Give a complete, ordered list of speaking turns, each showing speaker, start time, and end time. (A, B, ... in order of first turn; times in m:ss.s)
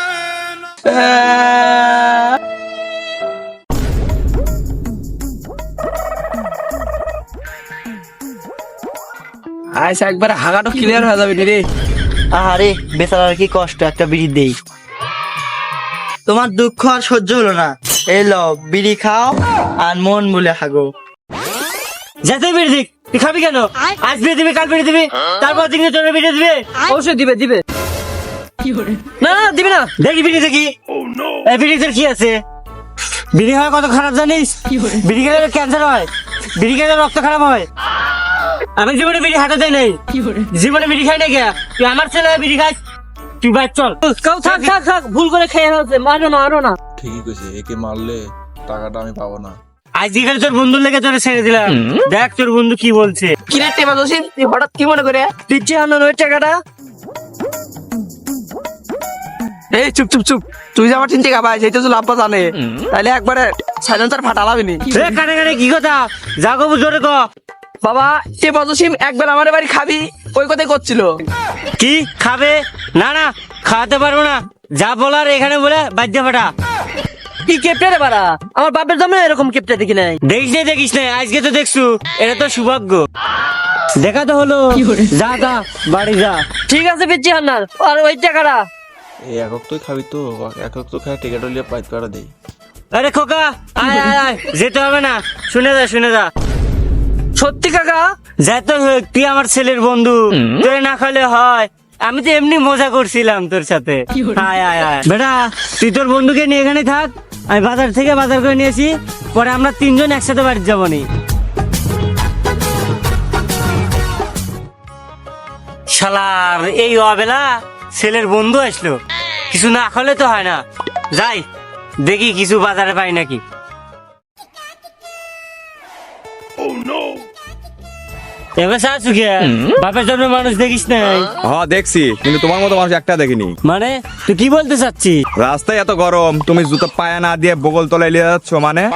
0:00.8-0:02.2 A
0:09.8-0:11.6 A
0:12.3-0:14.6 B
0:16.3-0:20.9 B
0:22.2-0:26.7 C
0:26.9-0:27.6 D
0:29.2-0:29.9 D
0:30.0-0:30.7 C
0:31.4-0:32.4 C
0:33.3-0:37.7 C
0:38.8-0:40.0 C
0:40.5-0:42.8 C
0:43.4-0:44.7 C
0:44.1-0:46.8 D
0:47.0-0:49.6 E
0:50.0-0:53.4 C
0:53.5-0:55.3 A
0:55.5-0:56.6 D
0:59.7-1:04.8 A
1:04.9-1:07.3 C
1:07.8-1:11.1 A
1:11.8-1:16.5 C
1:17.5-1:20.2 D
1:20.3-1:23.1 C
1:24.0-1:26.4 C
1:26.7-1:28.7 D
1:29.3-1:32.3 E
1:32.9-1:36.3 C
1:37.4-1:38.1 D
1:38.4-1:51.1 C
1:55.9-1:59.0 C
1:59.5-2:01.4 C
2:02.0-2:03.4 C
2:08.6-2:11.3 C
2:11.4-2:13.6 F
2:13.6-2:15.2 C
2:15.4-2:18.9 F